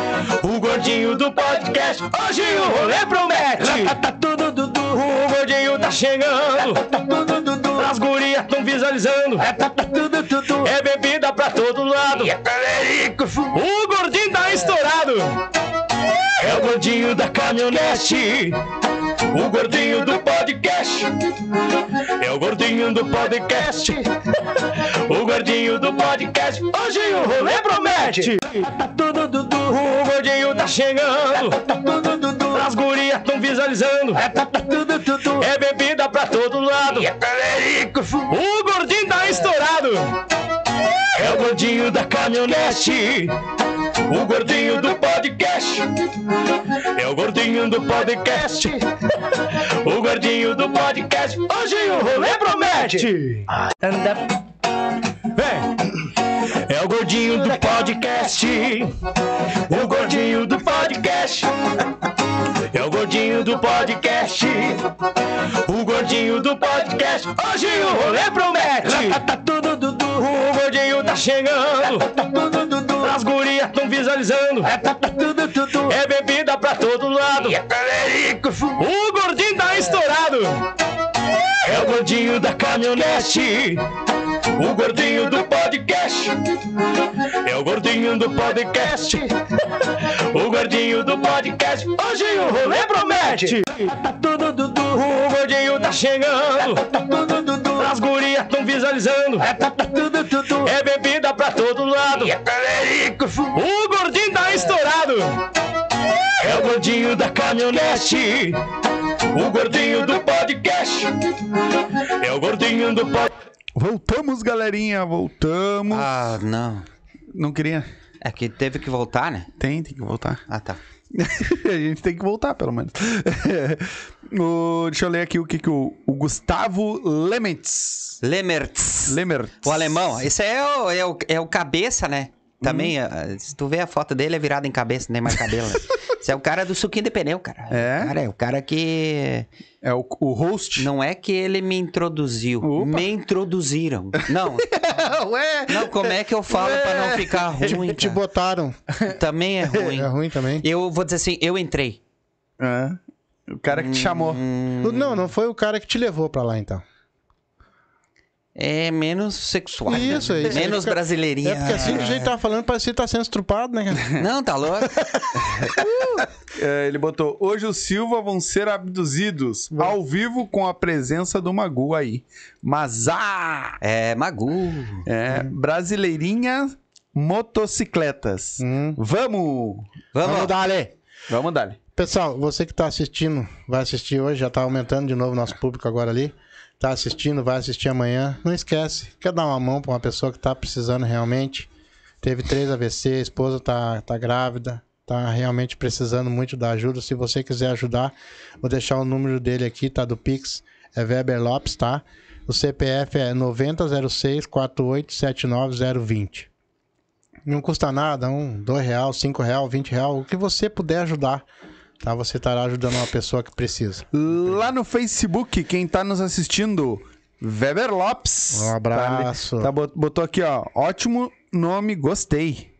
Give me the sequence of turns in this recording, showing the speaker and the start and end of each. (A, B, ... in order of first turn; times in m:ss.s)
0:00.4-0:15.4 A
0:16.4-0:18.6 A
0:19.3-0:21.1 A
0:22.2-0:24.1 A
0:24.7-0:40.1 A
0:41.2-0:43.3 A
0:44.1-0:45.9 A
0:47.0-0:54.3 A
0:55.4-0:55.7 A
0:56.7-0:58.9 A
0:59.7-1:01.5 A
1:02.7-1:04.9 A
1:05.6-1:20.6 A
1:21.6-1:23.8 A
1:24.6-1:26.4 A
1:27.4-1:29.3 A
1:30.3-1:45.4 A
1:46.4-1:48.6 A
1:49.3-1:51.1 A
1:52.2-1:53.3 A
1:53.8-1:56.1 B
1:55.9-1:56.9 C
1:57.3-1:57.9 B
1:58.2-1:59.5 C
1:59.6-2:00.4 B
2:00.5-2:00.8 C
2:01.1-2:08.2 B
2:08.2-2:19.5 C
2:09.0-2:10.1 B
2:12.6-2:12.9 B
2:17.7-2:18.2 B
2:19.8-2:20.9 B
2:20.8-2:25.0 C
2:22.6-2:23.1 B
2:24.6-2:27.8 B
2:25.7-2:28.2 C
2:27.6-2:28.8 D
2:29.0-2:30.1 C
2:29.8-2:30.6 D
2:30.6-2:32.0 C
2:32.6-2:34.4 B
2:33.7-2:35.3 C
2:34.8-2:36.8 D
2:38.6-2:42.3 C
2:39.9-2:44.2 D
2:44.2-2:46.2 C
2:45.6-2:53.8 B
2:53.8-2:55.1 C
2:55.1-2:59.9 B
2:58.6-2:59.0 D
3:00.1-3:00.5 C
3:00.2-3:00.9 D
3:01.3-3:01.8 B
3:02.0-3:11.7 D
3:12.2-3:26.5 D
3:27.5-3:31.4 D
3:32.0-3:34.1 D
3:34.1-3:42.7 B
3:38.5-3:39.7 D